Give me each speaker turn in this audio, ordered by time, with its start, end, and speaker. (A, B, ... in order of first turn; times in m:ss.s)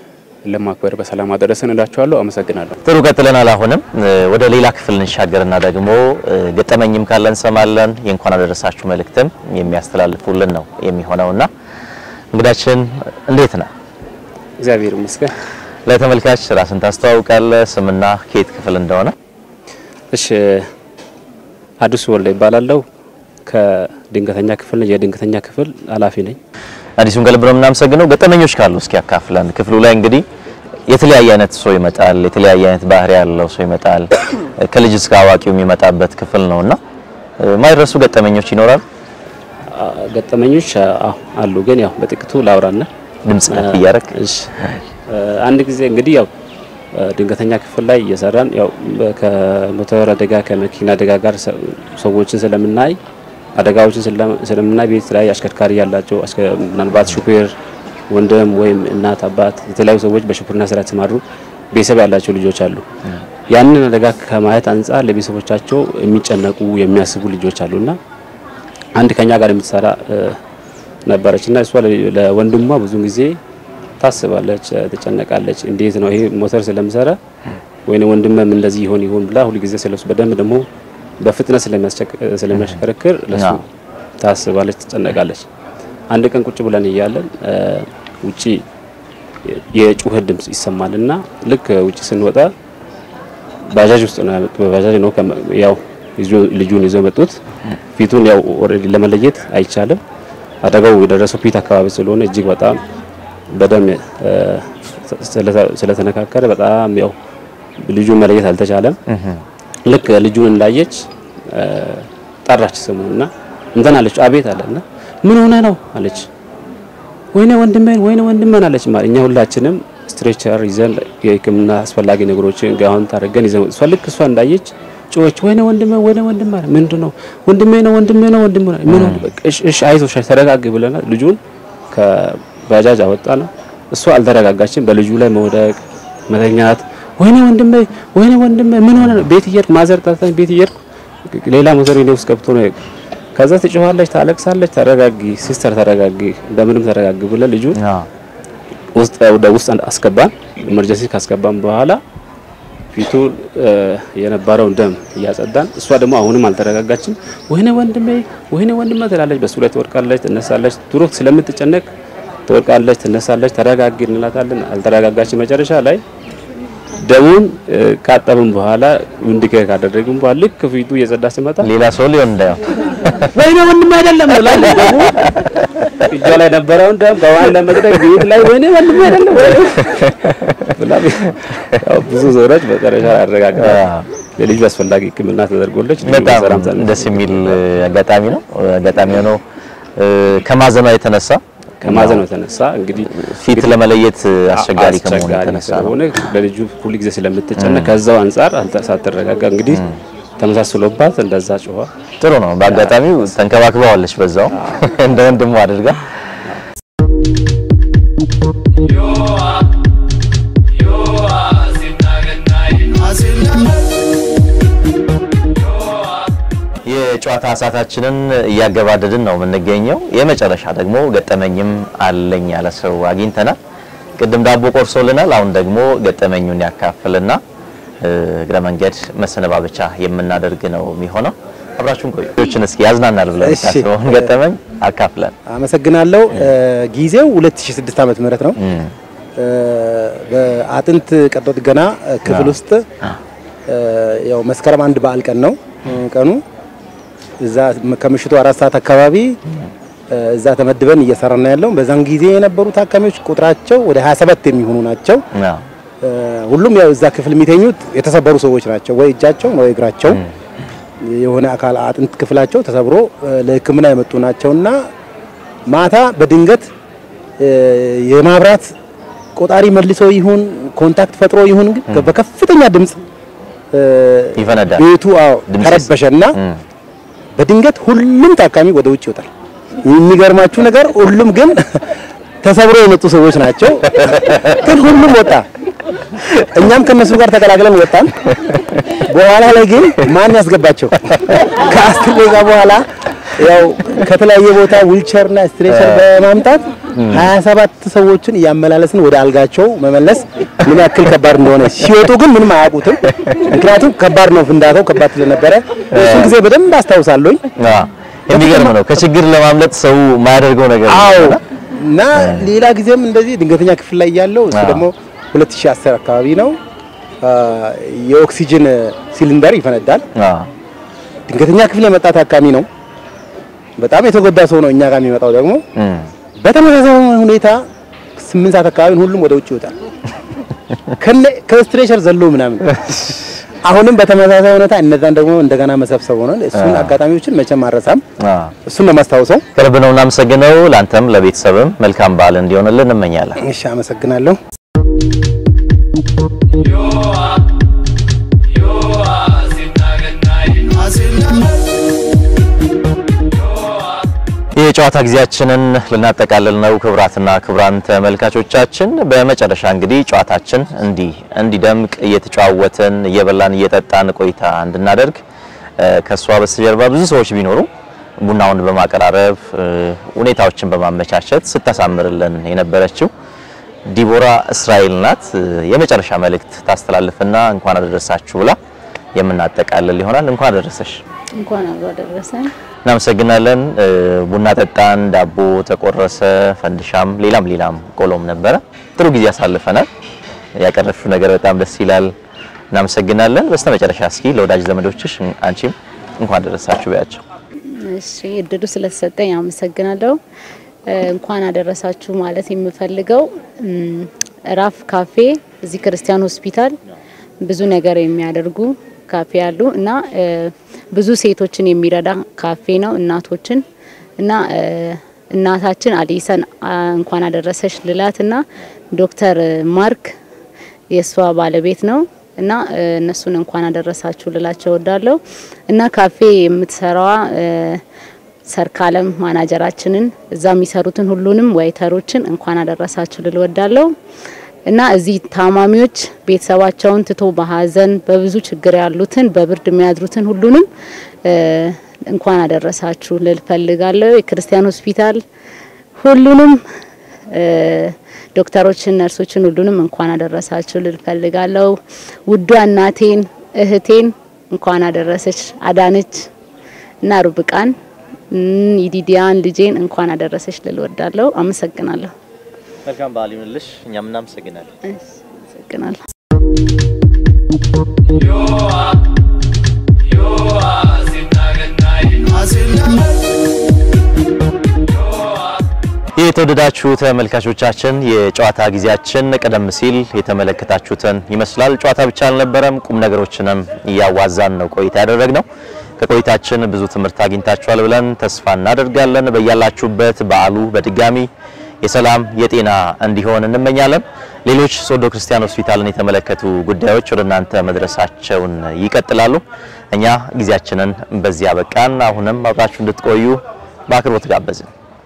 0:00.5-0:02.8 A
0:02.8-0:11.5 B
0:12.3-0:13.7 B
0:14.6-0:15.3 C
0:15.9-0:19.2 B
0:20.1-0:20.7 C
0:21.8-0:22.8 C
0:23.5-0:26.4 C
0:27.0-0:30.2 B
0:30.9-0:36.8 B
0:37.4-0:38.8 B
0:39.7-0:42.9 C
0:43.2-0:44.1 B
0:43.5-0:44.5 C
0:45.1-0:46.3 C
0:47.0-0:53.0 C
0:53.6-0:57.5 C
0:58.1-1:02.8 C
1:03.5-1:08.0 C
1:09.0-1:10.4 C
1:11.1-1:13.4 C
1:14.0-1:17.2 C
1:17.9-1:20.6 C
1:21.2-1:23.7 C
1:23.3-1:23.6 B
1:24.2-1:25.5 C
1:26.1-1:28.6 C
1:29.5-1:32.5 C
1:33.7-1:37.4 C
1:38.0-1:40.0 C
1:40.6-1:42.8 C
1:43.5-1:47.2 C
1:47.8-1:49.0 C
1:49.1-1:49.4 B
1:49.9-1:56.3 C
1:57.3-2:11.4 C
2:08.9-2:09.2 B
2:11.9-2:15.8 C
2:16.3-2:22.8 C
2:23.4-2:27.8 C
2:27.8-2:28.1 B
2:29.0-2:32.0 C
2:32.9-2:41.9 C
2:42.5-2:46.0 C
2:47.0-2:51.7 C
2:51.6-2:53.1 B
2:53.3-2:55.5 C
2:56.1-3:00.2 C
3:00.7-3:07.6 C
3:03.6-3:04.1 B
3:06.0-3:09.4 B
3:10.0-3:12.2 B
3:11.8-3:19.9 C
3:13.2-3:16.0 B
3:17.6-3:18.0 B
3:19.7-3:20.0 B
3:20.4-3:21.9 C
3:22.2-3:26.0 B
3:22.6-3:23.4 C
3:24.5-3:25.0 C
3:36.8-3:43.6 B
3:44.2-3:47.4 B
3:48.0-3:55.4 B
3:53.4-3:54.3 D
3:55.5-3:58.6 D
3:58.6-3:58.9 B
3:59.4-4:02.8 D
4:03.7-4:06.4 D
4:07.4-4:09.4 D
4:10.1-4:15.2 D
4:15.3-4:15.7 B
4:16.0-4:20.2 D
4:21.0-4:24.8 D
4:25.7-4:26.7 D
4:27.4-4:28.7 D
4:29.4-4:33.0 D
4:33.7-4:36.4 D
4:34.4-4:34.8 B
4:35.5-4:36.6 B
4:37.4-4:39.3 D
4:39.8-4:41.8 D
4:42.4-4:45.5 D
4:44.1-4:44.6 B
4:46.4-4:48.1 D
4:49.1-5:07.4 D
4:55.7-4:56.0 B
4:56.9-4:57.3 B
5:05.9-5:06.4 B
5:07.6-5:11.4 B
5:08.3-5:09.0 D
5:10.9-5:16.6 D
5:12.2-5:12.5 B
5:14.5-5:14.9 B
5:17.2-5:20.1 D
5:20.2-5:20.5 B
5:21.3-5:22.7 D
5:23.8-5:25.6 D
5:25.8-5:26.1 B
5:26.4-5:27.6 D
5:28.2-5:29.7 D
5:31.0-5:38.0 D
5:36.6-5:36.9 B
5:38.2-5:38.5 B
5:38.7-5:39.4 D
5:39.6-5:43.4 B
5:43.4-5:44.4 D
5:54.5-6:05.2 B
6:05.8-6:07.7 B
6:08.2-6:13.1 B
6:13.9-6:18.6 B
6:19.2-6:21.0 B
6:21.4-6:22.5 E
6:22.8-6:29.9 B
6:30.6-6:32.1 B
6:32.7-6:37.2 B
6:37.8-6:40.2 E
6:40.9-6:46.8 E
6:47.4-6:53.6 E
6:54.2-7:00.1 E
7:00.9-7:07.8 E
7:08.5-7:13.9 E
7:14.7-7:20.7 E
7:21.2-7:25.2 E
7:26.0-7:26.6 E
7:27.3-7:31.8 E
7:32.3-7:36.2 E
7:37.0-7:37.8 E
7:38.3-7:42.1 E
7:42.9-7:44.7 B
7:44.9-7:46.0 E
7:56.2-8:05.4 B
8:06.0-8:11.3 B
8:11.8-8:24.7 B